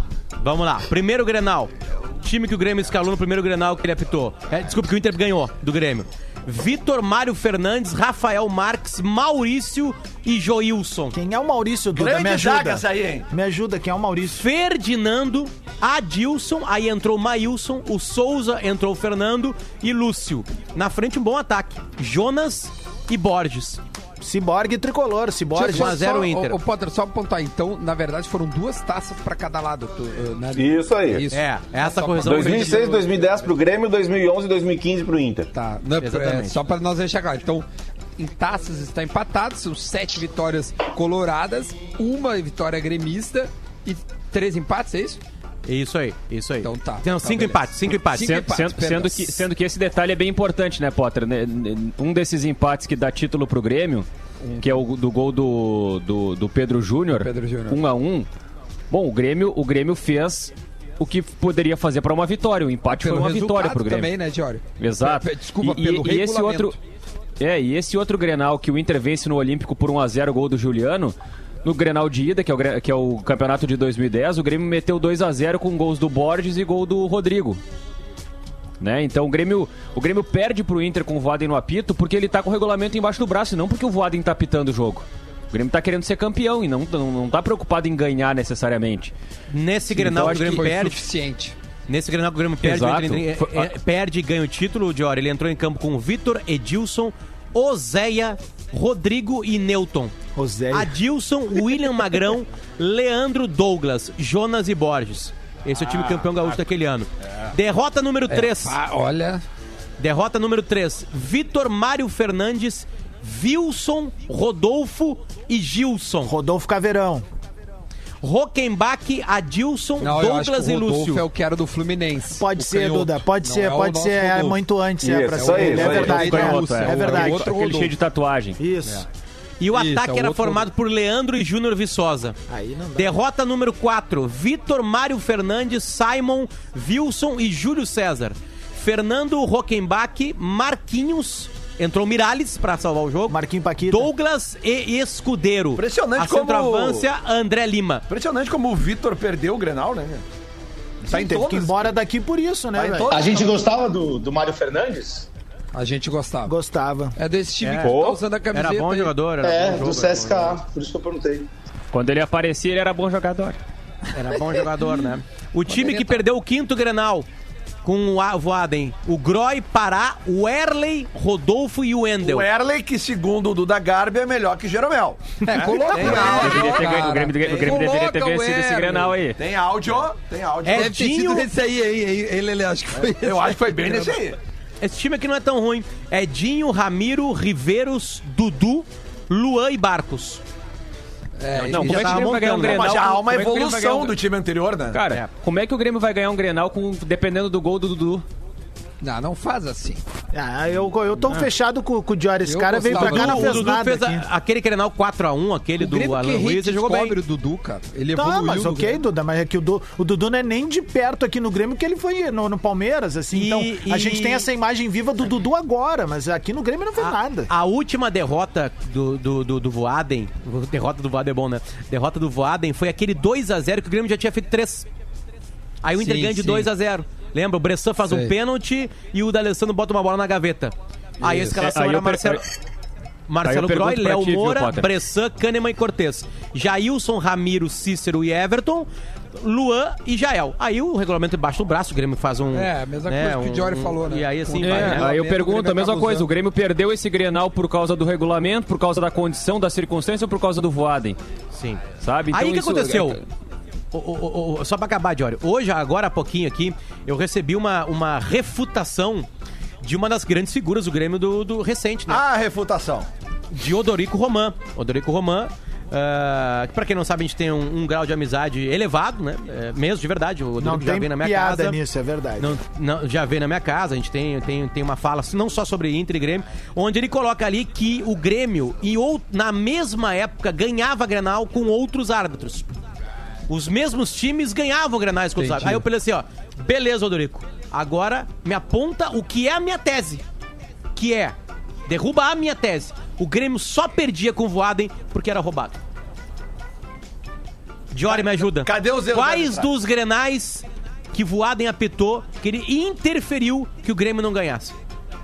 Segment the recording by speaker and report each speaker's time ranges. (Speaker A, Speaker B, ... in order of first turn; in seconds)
Speaker A: 0.4-11.2, 14.3-23.8, 25.6-26.6, 31.3-33.1, 36.0-36.6, 45.7-48.3, 89.5-91.0, 91.9-100.1, 100.7-108.8, 110.0-116.3, 118.2-121.2, 129.6-132.4, 133.0-143.4, 143.9-148.1, 157.6-158.0, 158.5-160.6, 164.1-167.3, 167.8-172.5, 180.7-181.5, 184.8-190.4, 191.6-193.0, 202.9-207.2, 213.3-214.5, 217.0-224.9, 225.8-232.4, 233.3-245.1, 251.5-253.2, 253.9-259.3, 259.8-262.2, 263.5-271.8, 272.4-282.7, 283.5-290.2, 290.9-291.4, 291.9-295.8, 297.9-304.8
Speaker B: 11.1-14.5, 24.2-26.3, 100.3-101.0, 116.2-117.2, 122.4-127.6, 128.6-129.1, 132.5-133.2, 143.3-144.1, 151.1-153.1, 156.5-157.2, 200.3-204.2, 208.2-217.5, 270.6-272.6
Speaker C: 12.0-13.3, 145.8-147.1, 148.1-150.2, 151.0-151.9, 152.8-153.6, 172.2-177.0, 179.4-181.0, 183.1-184.4, 192.6-195.0, 262.1-263.1, 298.1-299.7
Speaker D: 25.6-33.2, 35.5-37.7, 38.2-45.2, 46.6-49.5, 54.4-54.7, 57.1-57.8, 62.9-66.8, 89.9-91.5, 108.3-109.4, 120.0-124.6, 125.3-128.0, 129.7-130.7, 155.8-156.6, 157.2-159.1, 165.7-166.2, 175.4-179.2, 180.7-184.1, 191.4-192.4, 199.0-200.0, 202.4-203.7, 205.8-209.0, 226.0-226.7, 228.0-228.3, 231.2-231.6, 242.5-246.3, 285.4-285.8
Speaker E: 30.6-31.3, 32.2-35.5, 125.0-126.4, 157.8-158.2
Speaker F: 48.1-54.1, 54.6-58.3, 58.9-64.1, 64.8-66.8, 67.4-77.6, 78.8-89.1, 90.0-90.7, 92.6-93.7, 125.8-128.6, 161.9-163.6, 175.9-179.4, 191.7-194.2, 194.9-198.3, 231.5-232.4, 233.4-234.9, 244.6-251.2, 252.0-253.2
Speaker G: 153.1-155.3, 159.4-161.5